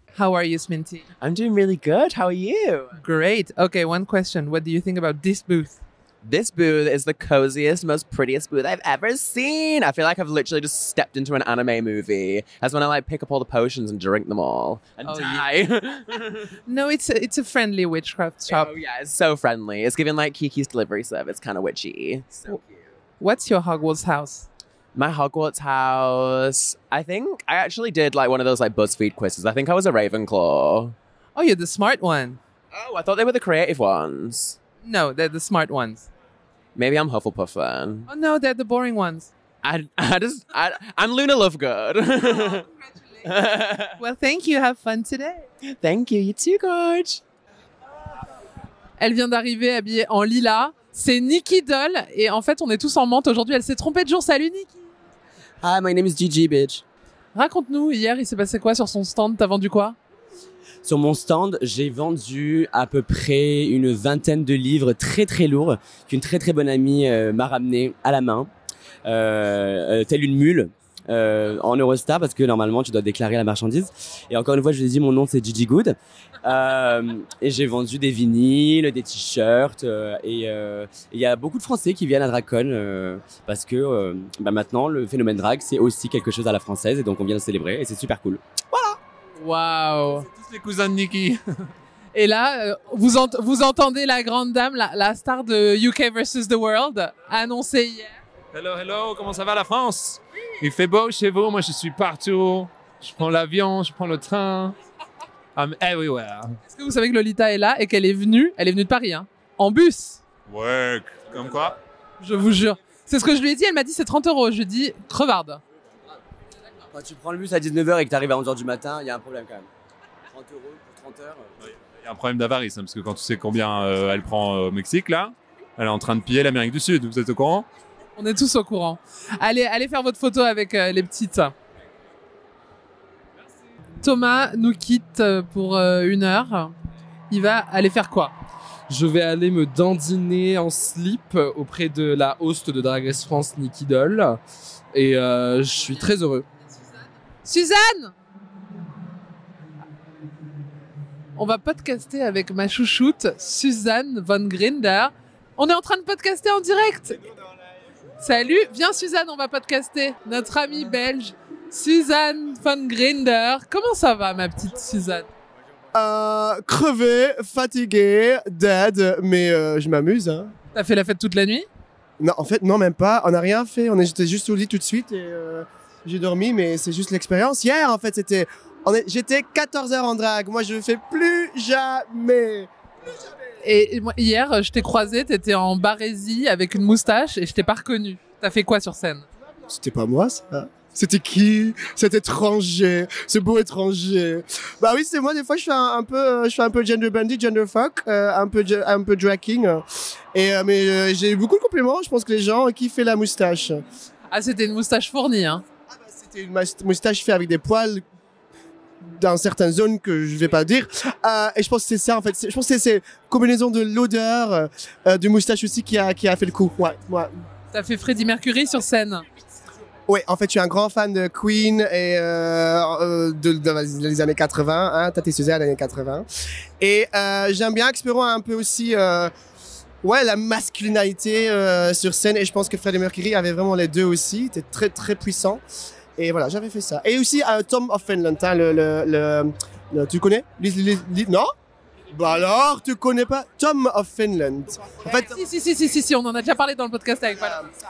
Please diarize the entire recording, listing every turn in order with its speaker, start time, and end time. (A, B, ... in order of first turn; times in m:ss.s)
0:00.1-0:01.0 A
0:01.2-0:03.0 B
0:03.0-0:05.8 A
0:06.2-0:16.5 B
0:15.0-0:15.4 A
0:16.7-0:18.7 A
0:18.5-0:22.9 B
0:23.2-0:24.5 A
0:25.0-0:31.0 B
0:31.4-0:32.4 A
0:32.7-0:34.6 B
0:34.8-0:36.1 A
0:36.8-0:38.1 B
0:38.1-0:39.3 A
0:39.6-0:42.6 B
0:43.2-0:44.0 B
0:44.0-0:45.4 A
0:45.7-0:47.2 B
0:49.0-0:54.8 A
0:55.6-0:56.8 C
0:57.4-1:00.0 A
1:00.8-1:08.5 C
1:09.0-1:28.4 C
1:29.4-1:30.3 A
1:30.3-1:31.4 D
1:32.1-1:38.2 A
1:38.5-1:44.8 D
1:45.6-1:46.6 D
1:46.7-1:50.2 A
1:50.5-1:51.8 D
1:52.2-1:55.6 A
1:56.9-1:59.7 C
2:00.3-2:01.5 C
2:01.7-2:07.7 D
2:08.2-2:11.5 A
2:14.0-2:16.7 A
2:17.3-2:18.4 A
2:18.9-2:24.4 E
2:24.9-2:26.5 E
2:27.4-2:28.1 A
2:31.4-2:37.3 A
2:38.2-2:45.3 A
2:45.9-2:50.5 F
2:50.7-2:51.7 A
2:52.2-3:03.3 F
3:03.6-3:09.2 A
3:09.7-3:23.8 F
3:24.3-3:25.6 A
3:25.9-3:28.0 F
3:29.2-3:37.4 F
3:37.7-3:39.2 A
3:40.1-3:46.3 F
3:46.8-3:49.3 F
3:50.0-3:55.6 F
3:56.2-4:01.5 F
4:02.1-4:05.4 F
4:05.3-4:07.7 A